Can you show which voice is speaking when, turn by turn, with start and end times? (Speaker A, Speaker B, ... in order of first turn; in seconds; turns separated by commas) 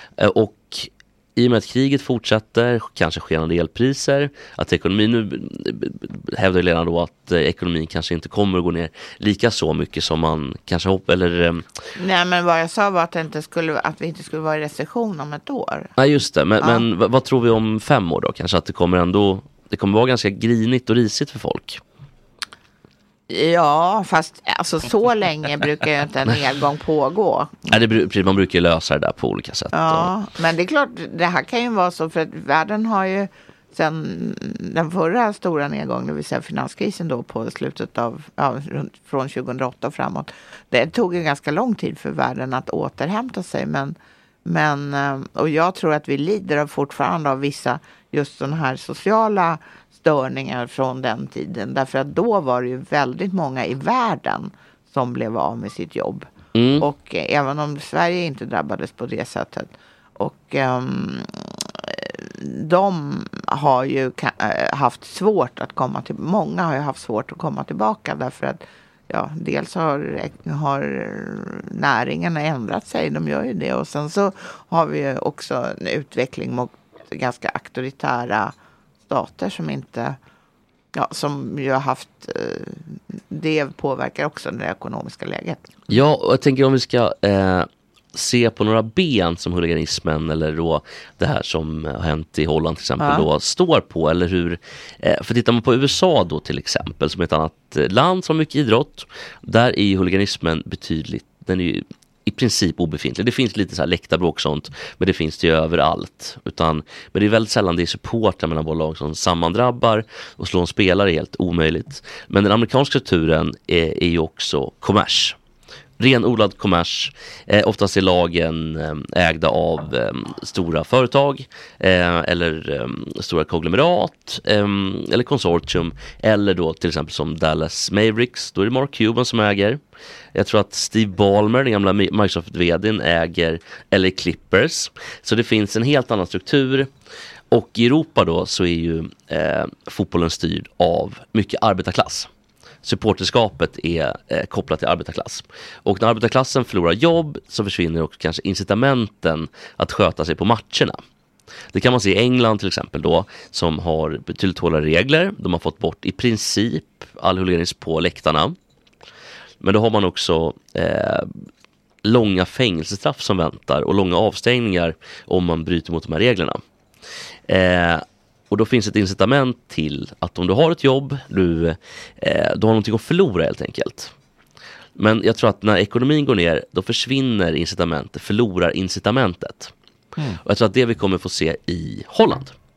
Speaker A: 0.2-11.7, Speaker B: 11.9-15.9, Speaker A: 16.0-21.8, Speaker B: 23.3-27.7, Speaker A: 27.7-30.1, Speaker B: 29.7-56.3, Speaker A: 56.5-56.9, Speaker B: 56.8-78.5, Speaker B: 79.1-80.2, Speaker B: 80.9-85.7, Speaker A: 85.9-115.3, Speaker B: 93.0-93.3, Speaker A: 116.0-129.8, Speaker A: 130.3-136.9, Speaker A: 137.5-142.3, Speaker A: 142.8-151.0, Speaker A: 151.7-158.6, Speaker A: 159.6-161.3, Speaker A: 162.0-166.6, Speaker A: 167.5-174.1, Speaker A: 175.0-179.7, Speaker A: 180.4-182.5